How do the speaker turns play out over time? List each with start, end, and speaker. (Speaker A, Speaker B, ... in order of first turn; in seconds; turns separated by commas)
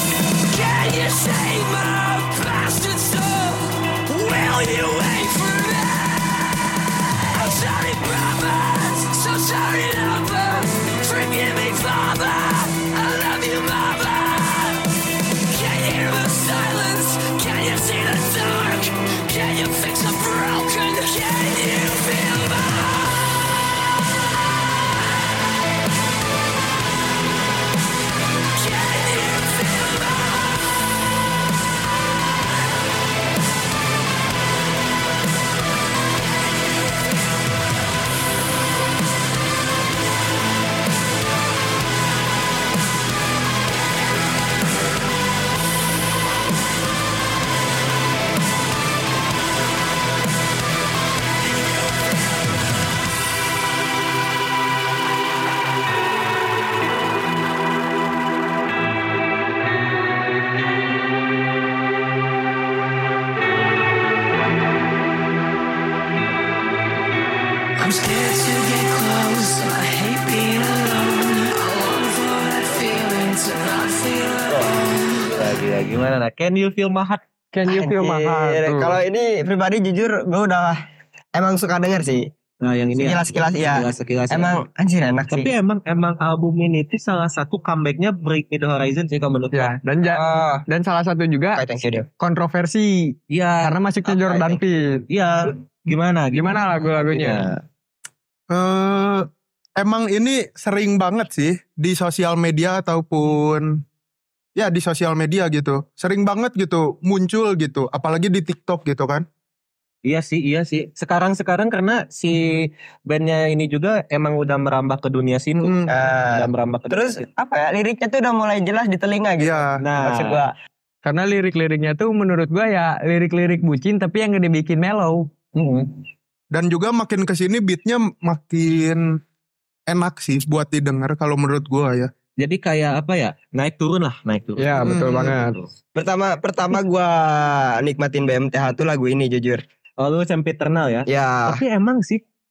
Speaker A: 0.5-14.9, Speaker A: 15.5-23.3, Speaker A: 28.5-30.6, Speaker A: 67.8-75.4, Speaker B: 75.2-77.2, Speaker C: 77.5-79.0, Speaker D: 77.7-80.8, Speaker D: 81.4-82.3, Speaker B: 82.6-84.6, Speaker D: 83.0-85.5, Speaker B: 85.3-89.7, Speaker C: 89.5-91.6, Speaker D: 90.1-90.6, Speaker D: 91.6-92.1, Speaker C: 92.2-95.0, Speaker B: 93.3-93.8, Speaker D: 94.3-94.5, Speaker B: 95.1-97.6, Speaker C: 96.3-97.4, Speaker E: 98.5-99.3, Speaker E: 99.8-103.8, Speaker E: 104.6-109.2, Speaker B: 110.0-117.2, Speaker E: 115.6-115.9, Speaker D: 115.9-120.5, Speaker E: 119.4-119.7, Speaker B: 119.8-120.4, Speaker C: 121.0-125.8, Speaker E: 126.5-129.2, Speaker E: 129.9-132.1, Speaker B: 132.4-135.7, Speaker C: 134.6-135.6, Speaker E: 134.8-135.4, Speaker D: 135.9-139.6, Speaker B: 140.0-142.2, Speaker D: 141.1-141.6